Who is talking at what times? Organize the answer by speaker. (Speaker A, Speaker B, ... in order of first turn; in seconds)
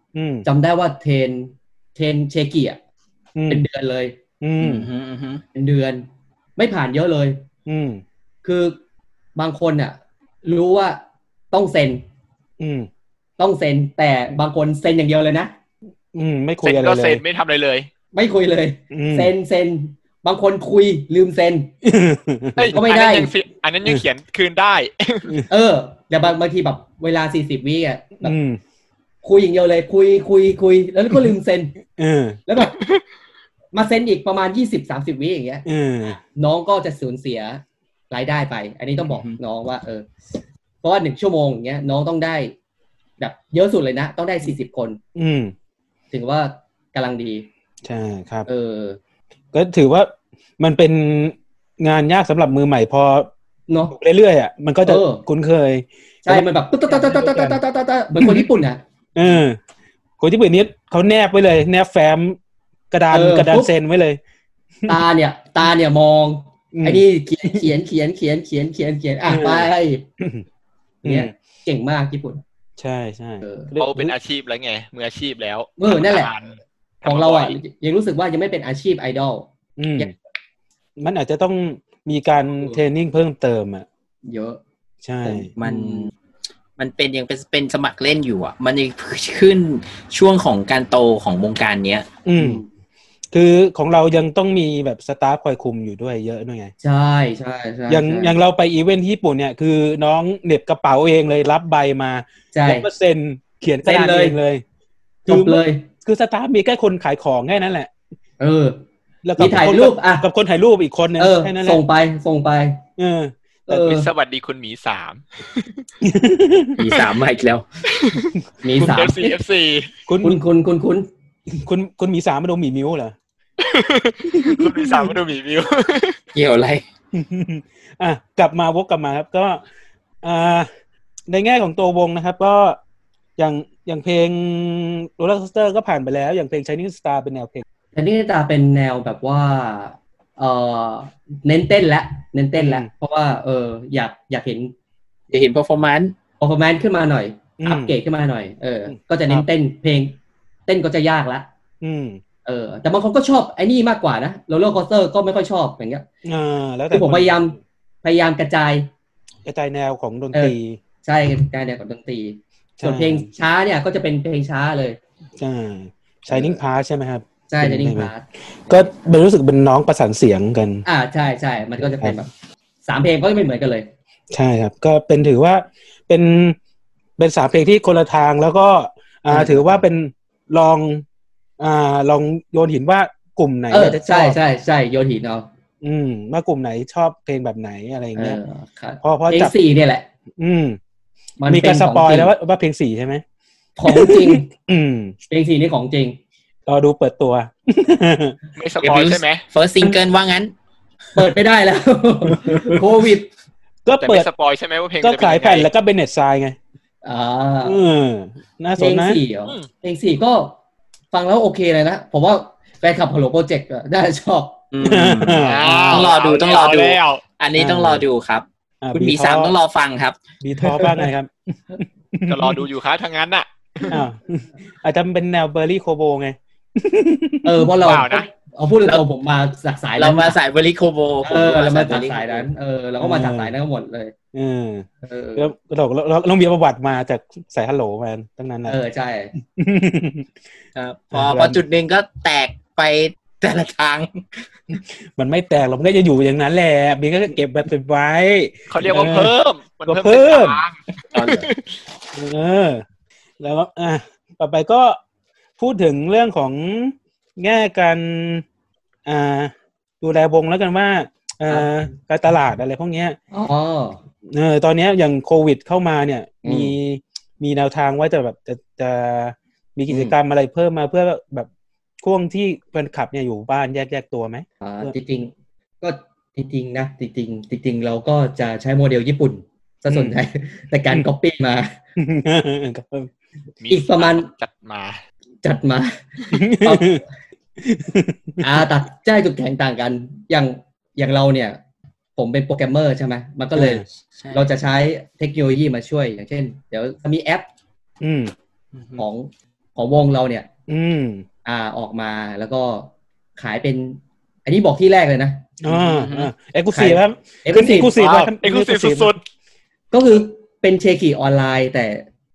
Speaker A: 0.1-0.5, 3.4-3.6, 4.4-4.9, 7.7-8.0, 12.6-12.9, 16.1-17.2, 18.9-19.3, 21.8-22.8, 28.2-28.6, 32.0-32.4, 35.7-36.2, 45.1-45.5, 47.8-48.5, 49.5-53.3, 53.9-57.6, 58.2-58.6, 59.1-59.6, 60.2-62.4, 62.9-64.2, 66.7-67.7, 69.3-70.4, 71.0-71.3, 72.8-74.2, 79.8-80.1, 81.0-83.9, 85.0-85.5, 92.2-92.6, 93.3-96.7, 97.9-104.6, 105.3-107.9, 109.2-111.8, 113.0-113.3, 116.0-116.8, 120.1-120.4, 121.5-123.2, 124.5-125.1, 127.1-129.6, 130.2-130.7, 131.3-132.8, 133.4-137.6, 142.6-142.9, 147.6-148.0, 151.8-152.2, 156.2-157.5, 159.4-160.8, 162.8-163.3, 165.4-168.1, 168.7-170.8, 171.8-172.2, 174.3-176.6, 177.2-181.0, 181.6-184.4, 185.8-188.4, 189.0-189.5, 190.4-190.8, 191.5-193.2, 193.9-195.2, 196.7-198.4, 203.8-204.3, 205.0-206.6, 207.6-209.2, 214.8-216.1, 217.6-218.1, 218.8-219.5, 220.4-222.6, 223.9-227.7, 233.0-233.6, 234.3-238.8, 239.6-240.3, 241.1-241.6, 244.7-249.3, 249.9-250.6, 252.1-252.8, 253.4-255.0, 255.6-258.4, 259.1-263.2, 264.3-271.5, 272.0-274.9, 279.9-280.2, 282.0-283.1, 286.3-287.0, 287.6-288.7, 293.6-293.8, 298.0-298.3, 300.7-301.2, 305.6-309.1
Speaker B: 0.5-2.8, 3.5-4.2, 5.5-6.1, 6.6-7.4, 8.4-8.8, 9.4-11.0, 11.5-12.0, 13.4-15.5, 18.1-21.7, 22.7-23.3, 25.5-28.4, 29.2-31.8, 32.5-32.8, 33.7-35.6, 36.4-40.1, 40.8-42.5, 43.2-45.0, 46.1-47.5, 48.5-49.0, 53.7-54.0, 54.9-55.2, 56.2-58.8, 63.1-63.7, 64.9-70.0, 71.0-72.4, 73.4-73.7, 75.8-76.3, 77.0-79.5, 82.5-82.8, 84.3-84.6, 85.2-86.1, 92.4-92.7, 96.8-98.4, 102.5-102.9, 103.8-104.4, 105.3-105.8, 108.4-108.8, 109.4-110.3, 111.2-112.8, 113.7-114.1, 118.6-119.4, 120.2-121.1, 137.9-144.7, 146.4-151.5, 152.4-156.1, 156.9-158.9, 160.3-165.0, 166.3-166.6, 167.5-168.9, 170.8-172.3, 172.9-173.9, 179.3-179.8, 183.7-185.5, 188.2-190.1, 191.4-192.3, 193.8-194.5, 195.3-196.2, 201.2-203.3, 207.0-207.8, 208.8-210.6, 211.1-214.7, 227.4-230.4, 231.2-234.1, 235.0-235.5, 238.7-239.3, 263.3-264.0, 266.4-266.7, 269.9-270.1, 274.6-281.8, 283.7-284.3, 285.4-287.1, 288.4-291.6, 292.2-297.5, 299.0-300.5, 301.4-305.5, 306.7-307.9, 309.9-312.1
Speaker C: 4.6-5.4, 85.5-86.1, 86.8-92.1, 116.8-117.7, 126.3-126.8, 145.3-146.1, 198.8-200.5, 214.7-220.2, 230.0-232.5, 240.8-244.4, 251.1-251.5, 293.9-294.5, 298.7-299.1, 305.7-306.3
Speaker D: 16.6-17.9, 22.6-25.4, 32.6-33.0, 73.8-77.6, 113.7-115.8, 117.9-119.9, 123.6-126.2, 198.6-199.4, 204.0-205.7, 215.4-217.2, 222.3-223.9, 227.8-228.3, 248.7-251.8, 283.6-285.0, 307.9-309.2